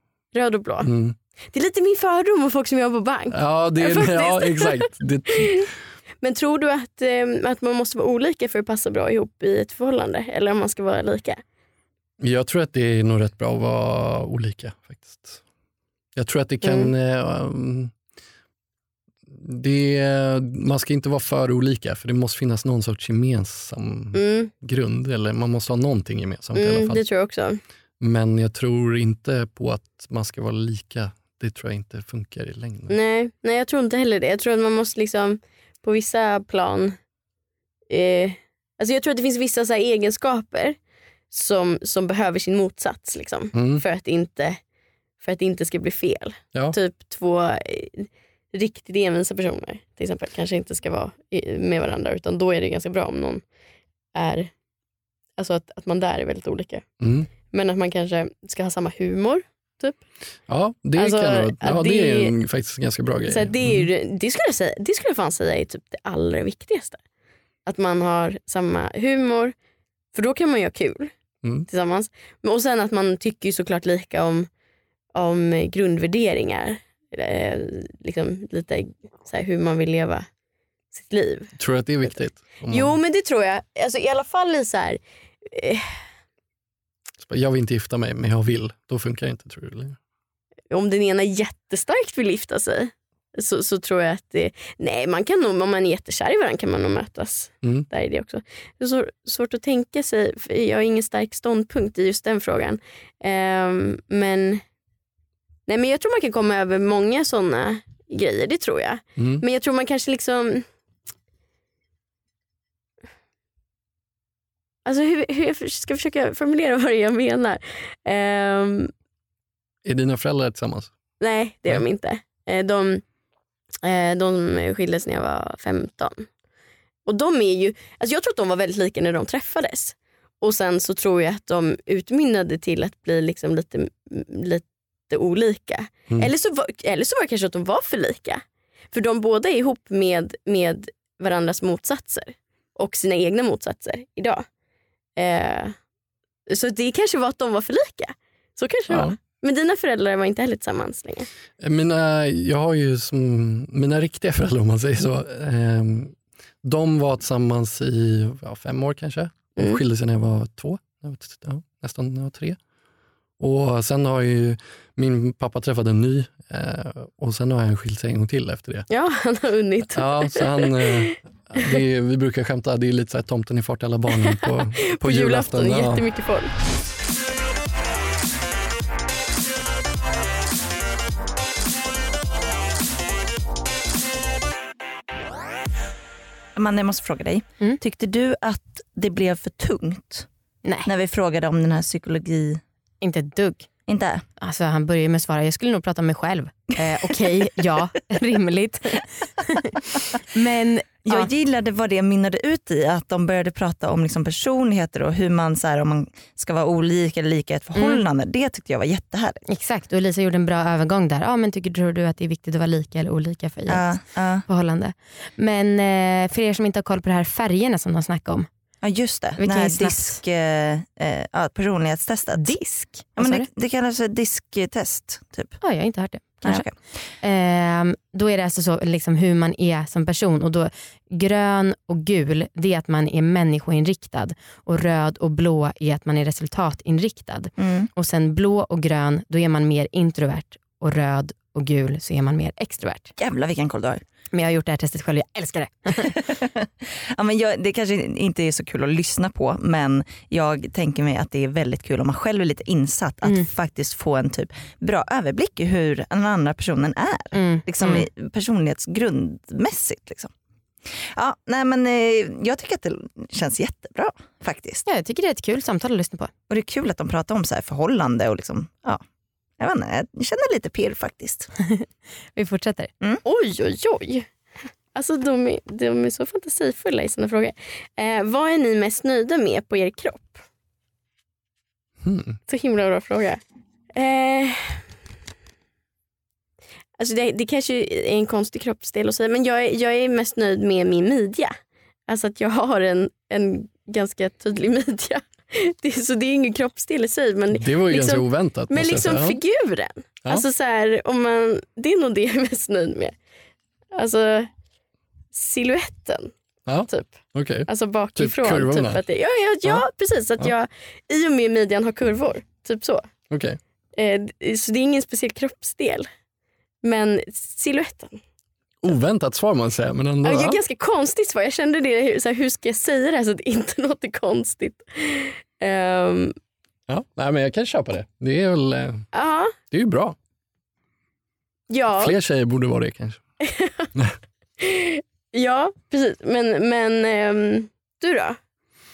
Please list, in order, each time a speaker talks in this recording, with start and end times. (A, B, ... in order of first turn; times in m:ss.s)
0:00.3-0:00.9 A
0:00.8-0:01.1 B
0:01.5-0:05.6 A
0:03.3-0:05.7 B
0:06.2-0:11.4 A
0:12.2-0:15.4 B
0:16.1-0:17.9 B
0:16.6-0:16.9 A
0:19.3-0:27.0 B
0:24.1-0:24.5 A
0:26.5-0:27.6 A
0:28.0-0:32.9 B
0:32.9-0:37.0 A
0:37.9-0:40.8 A
0:41.3-0:44.6 A
0:43.5-0:43.8 B
0:45.2-0:53.4 A
0:54.1-0:54.5 A
0:55.4-0:56.8 A
0:57.0-0:57.3 B
0:57.4-1:00.0 A
1:00.5-1:03.9 B
1:01.0-1:02.3 A
1:03.3-1:07.0 A
1:07.6-1:09.5 A
1:10.1-1:11.1 A
1:11.7-1:14.5 A
1:15.1-1:20.2 A
1:20.9-1:21.5 A
1:21.6-1:22.9 B
1:22.7-1:25.9 A
1:27.2-1:30.0 B
1:30.7-1:44.6 A
1:45.7-1:50.6 A
1:49.2-1:49.4 B
1:54.8-1:58.9 A
1:59.8-2:00.9 B
2:01.2-2:03.0 A
2:03.8-2:06.3 A
2:07.0-2:24.4 A
2:25.2-2:25.7 A
2:26.5-2:31.3 A
2:28.9-2:29.2 B
2:31.6-2:42.6 B
2:43.4-2:48.8 B
2:48.9-2:51.8 A
2:49.9-2:56.0 B
2:54.2-2:56.5 A
3:06.5-3:10.3 C
3:10.6-3:10.9 D
3:10.8-3:12.6 C
3:13.0-3:13.7 D
3:13.9-3:14.2 C
3:14.4-3:21.3 D
3:21.0-3:29.4 C
3:27.7-3:28.0 D
3:29.5-3:38.5 D
3:33.7-3:34.4 C
3:38.8-3:42.6 C
3:39.4-3:40.2 D
3:42.3-3:43.5 D
3:43.2-3:45.6 C
3:45.6-3:46.6 D
3:46.4-3:46.7 C
3:47.2-4:03.1 D
3:57.6-3:57.9 C
4:03.2-4:04.0 C
4:04.3-4:06.2 D
4:06.0-4:20.3 C
4:17.3-4:18.0 D
4:20.9-4:24.8 C
4:24.9-4:26.3 D
4:26.5-4:29.0 C
4:29.6-4:31.5 C
4:31.6-4:32.9 D
4:33.2-4:34.3 A
4:34.9-4:40.4 A
4:42.0-4:42.4 B
4:42.5-4:43.4 A
4:43.9-4:44.8 A
4:47.0-4:51.5 A
4:52.1-5:03.1 A
4:57.5-4:59.4 B
5:03.9-5:04.5 A
5:05.3-5:06.3 A
5:06.6-5:09.0 B
5:06.9-5:13.1 A
5:13.3-5:13.6 B
5:14.0-5:16.1 A
5:16.8-5:18.2 A
5:18.8-5:20.6 B
5:20.2-5:26.3 A
5:26.9-5:29.0 B
5:29.1-5:29.5 A
5:29.7-5:30.2 B
5:31.7-5:32.1 A
5:32.0-5:33.2 B
5:33.4-5:33.9 A
5:34.6-5:38.4 A